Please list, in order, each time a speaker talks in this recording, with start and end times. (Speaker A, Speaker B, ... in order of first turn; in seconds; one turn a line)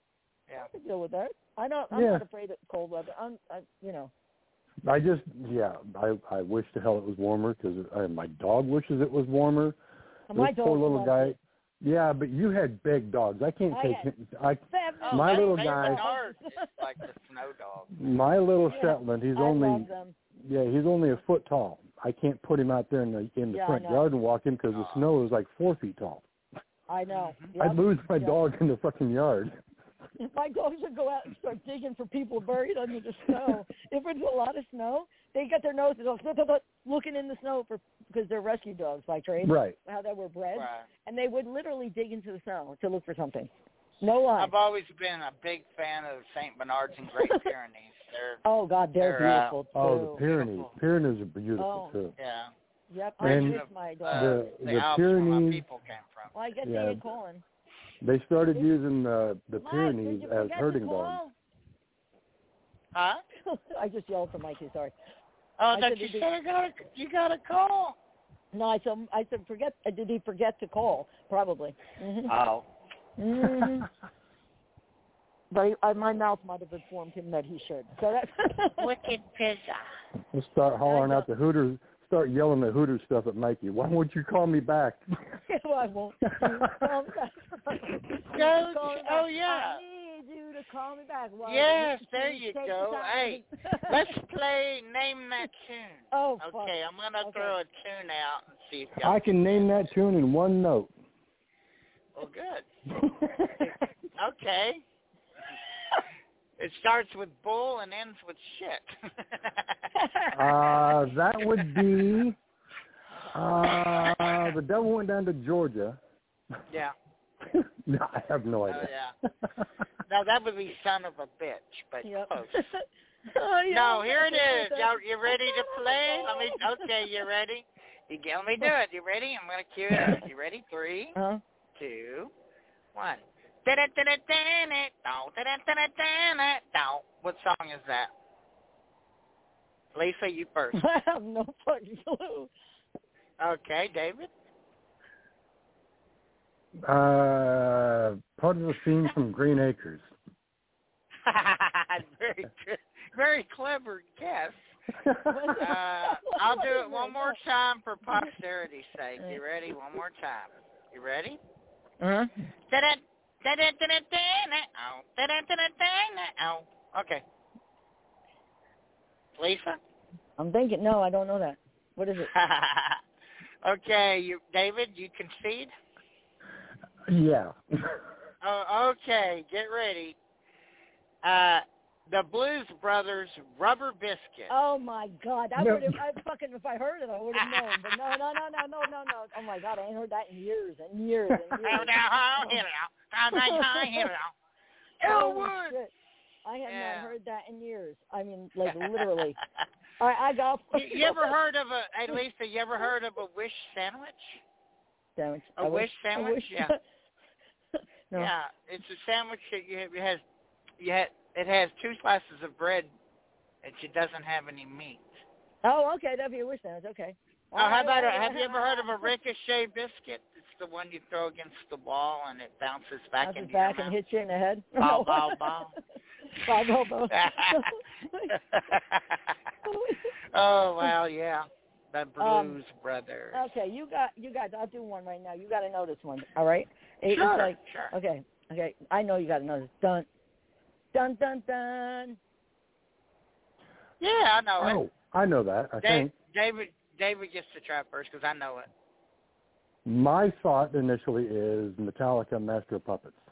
Speaker A: 0.6-4.1
Speaker B: 1.9-2.2
Speaker B: 4.8-9.8
Speaker A: 10.3-11.4
Speaker B: 10.3-16.0
Speaker A: 13.7-14.1
Speaker A: 14.7-17.0
Speaker C: 15.0-18.2
Speaker B: 18.0-26.2
Speaker A: 18.7-20.1
Speaker A: 23.5-24.0
Speaker C: 24.7-25.0
Speaker A: 26.9-28.4
Speaker C: 27.1-27.5
Speaker B: 27.6-29.6
Speaker A: 30.2-43.5
Speaker B: 39.4-39.8
Speaker C: 40.5-40.9
Speaker A: 44.0-44.5
Speaker C: 44.4-48.4
Speaker A: 47.2-47.5
Speaker A: 48.5-50.2
Speaker C: 49.0-49.6
Speaker B: 49.8-52.1
Speaker C: 50.2-50.7
Speaker A: 51.6-52.0
Speaker C: 52.2-52.5
Speaker A: 52.9-54.4
Speaker C: 53.2-56.4
Speaker B: 53.2-55.6
Speaker A: 56.3-57.4
Speaker B: 56.6-57.0
Speaker B: 58.0-61.2
Speaker A: 59.6-61.4
Speaker C: 62.9-63.2
Speaker A: 63.5-64.9
Speaker C: 65.6-68.0
Speaker A: 65.7-66.3
Speaker A: 68.5-72.3
Speaker C: 72.3-72.7
Speaker A: 73.2-73.9
Speaker A: 75.5-78.9
Speaker C: 78.8-79.9
Speaker B: 80.3-85.0
Speaker A: 80.9-81.3
Speaker A: 85.5-94.1
Speaker C: 88.3-89.8
Speaker C: 91.5-99.9
Speaker A: 96.1-97.6
Speaker B: 99.0-100.9
Speaker C: 102.2-102.7
Speaker B: 102.9-103.7
Speaker C: 103.6-104.8
Speaker C: 106.6-109.9
Speaker A: 110.0-110.3
Speaker B: 110.3-112.4
Speaker B: 113.3-116.0
Speaker C: 113.8-114.5
Speaker B: 117.5-118.9
Speaker C: 118.7-119.1
Speaker C: 120.1-122.7
Speaker A: 122.0-127.0
Speaker C: 123.7-131.2
Speaker A: 131.2-131.4
Speaker C: 131.8-132.3
Speaker C: 132.9-138.1
Speaker C: 139.9-140.8
Speaker A: 140.7-142.5
Speaker C: 143.4-144.3
Speaker B: 146.8-150.1
Speaker C: 151.2-154.8
Speaker B: 155.0-155.6
Speaker A: 155.3-157.4
Speaker C: 155.6-161.4
Speaker A: 162.0-162.3
Speaker C: 162.7-167.2
Speaker C: 169.4-169.8
Speaker A: 170.4-172.3
Speaker C: 172.2-173.0
Speaker C: 173.6-175.7
Speaker B: 177.1-178.0
Speaker C: 178.4-180.2
Speaker C: 181.2-184.5
Speaker A: 184.5-192.5
Speaker B: 185.6-186.0
Speaker C: 187.4-188.2
Speaker C: 191.6-194.3
Speaker A: 193.3-194.1
Speaker C: 195.0-195.8
Speaker A: 195.0-195.9
Speaker A: 196.4-199.4
Speaker C: 196.7-197.1
Speaker C: 198.7-199.1
Speaker A: 200.0-201.3
Speaker C: 200.7-204.4
Speaker A: 205.2-206.8
Speaker C: 205.6-206.7
Speaker C: 208.2-210.2
Speaker C: 210.8-212.9
Speaker C: 213.6-215.2
Speaker A: 215.6-219.1
Speaker C: 217.6-224.0
Speaker A: 223.2-225.6
Speaker C: 224.8-225.8
Speaker A: 226.4-228.3
Speaker C: 227.1-227.7
Speaker C: 228.3-229.4
Speaker A: 229.7-230.1
Speaker C: 230.3-233.5
Speaker A: 232.2-232.6
Speaker A: 233.3-240.1
Speaker C: 237.1-237.9
Speaker A: 240.9-242.2
Speaker C: 244.0-244.8
Speaker B: 244.6-246.1
Speaker C: 245.8-248.7
Speaker B: 249.8-253.2